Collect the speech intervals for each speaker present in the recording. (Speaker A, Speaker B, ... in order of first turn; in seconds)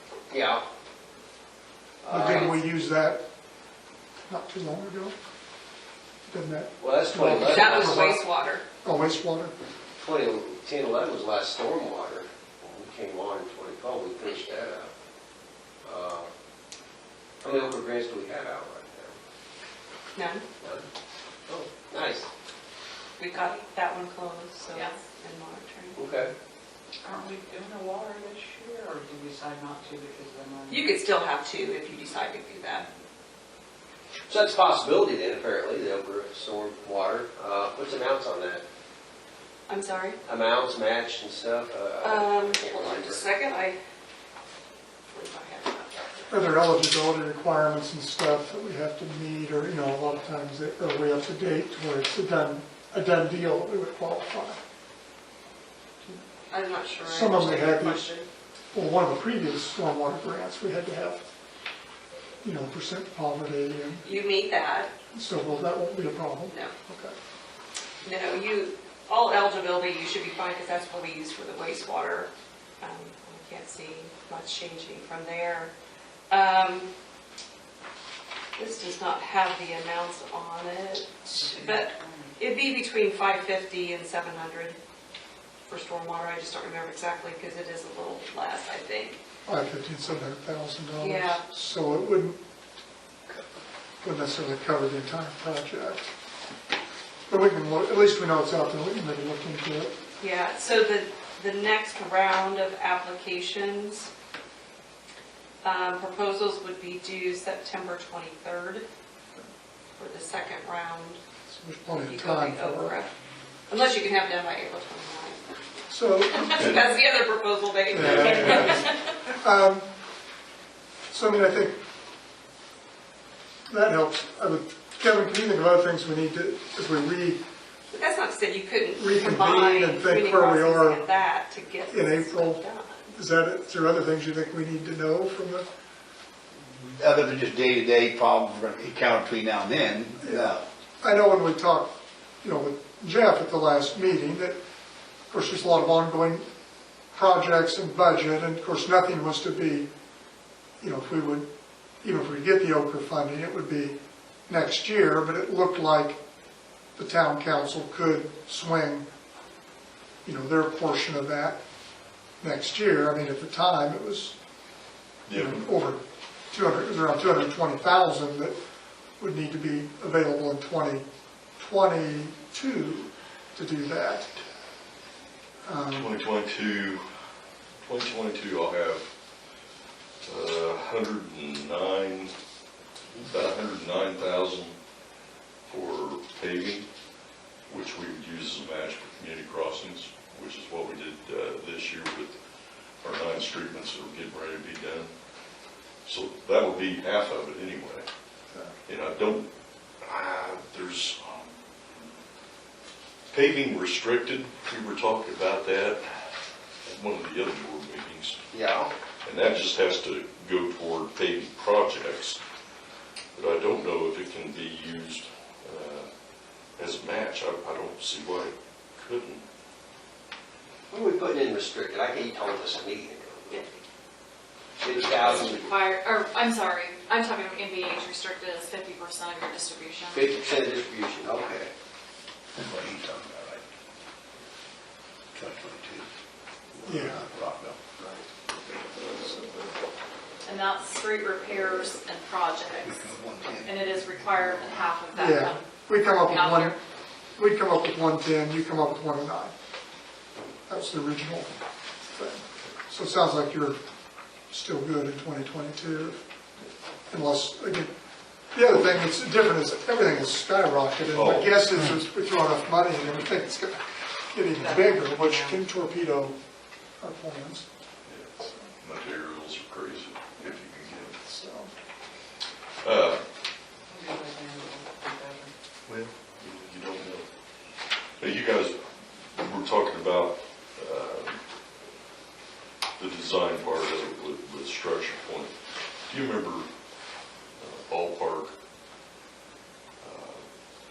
Speaker A: 0.3-0.6, 2.0-2.6, 6.8-8.1, 10.0-14.9, 15.8-16.3, 17.4-19.1, 20.6-20.9, 21.5-22.3, 25.9-26.3, 34.3-38.6, 40.2-43.2, 208.5-208.9, 220.9-223.7, 224.8-225.8, 230.1-231.7
Speaker B: 2.1-3.2, 4.3-5.1, 6.3-8.2, 8.8-9.5, 46.3-54.6, 57.1-58.0, 58.7-61.2, 62.4-64.0, 65.1-67.1, 89.5-92.4, 94.0-96.1, 97.3-99.9, 111.5-112.9, 115.9-116.5, 117.9-118.8, 119.4-119.9, 121.1-121.8, 123.7-127.4, 129.0-131.0, 131.9-132.6, 133.1-135.7, 141.0-144.6, 145.3-146.4, 147.1-149.9, 150.8-151.5, 152.0-156.2, 156.9-159.1, 160.2-161.6, 162.4-164.3, 165.3-166.0, 166.5-168.5, 169.2-171.0, 171.6-174.3, 175.6-176.1, 236.8-237.2, 245.1-246.7, 247.3-249.5, 250.7-251.6, 252.1-253.8, 254.5-256.2, 257.1-257.9, 258.5-266.4, 267.0-267.6, 271.2-271.7
Speaker C: 2.1-2.5, 7.4-8.6, 20.1-20.4, 23.2-26.0, 30.7-32.9, 39.7-40.2, 42.0-43.8, 45.1-46.3, 56.5-58.3, 64.0-64.9, 68.0-72.3, 72.8-75.7, 76.3-76.9, 78.5-84.8, 85.7-89.2, 91.0-91.4, 100.2-104.1, 105.6-108.8, 110.0-111.2, 112.0-113.1, 113.7-115.5, 116.2-119.1, 127.9-133.1, 238.0-239.7
Speaker D: 27.0-30.9, 81.3-82.3, 264.6-265.7, 273.9-275.5
Speaker E: 118.0-118.8, 165.2-165.7, 175.9-177.0, 177.8-179.1, 180.2-182.3, 183.2-184.7, 185.7-186.9, 187.7-192.3, 193.0-195.1, 196.0-198.1, 198.9-199.4, 200.0-201.5, 203.3-206.0, 206.8-208.4, 209.2-212.4, 213.3-216.1, 216.8-219.4, 224.9-225.5, 261.1-261.7, 268.1-271.2, 272.8-273.2, 275.9-277.3, 278.2-278.8, 279.3-281.4, 283.0-285.5, 286.1-286.7, 287.6-288.5, 290.0-290.4
Speaker F: 136.8-140.6, 232.6-233.6, 235.3-236.1, 236.7-237.8, 242.8-244.9
Speaker G: 225.3-230.2, 240.4-243.1, 243.6-246.8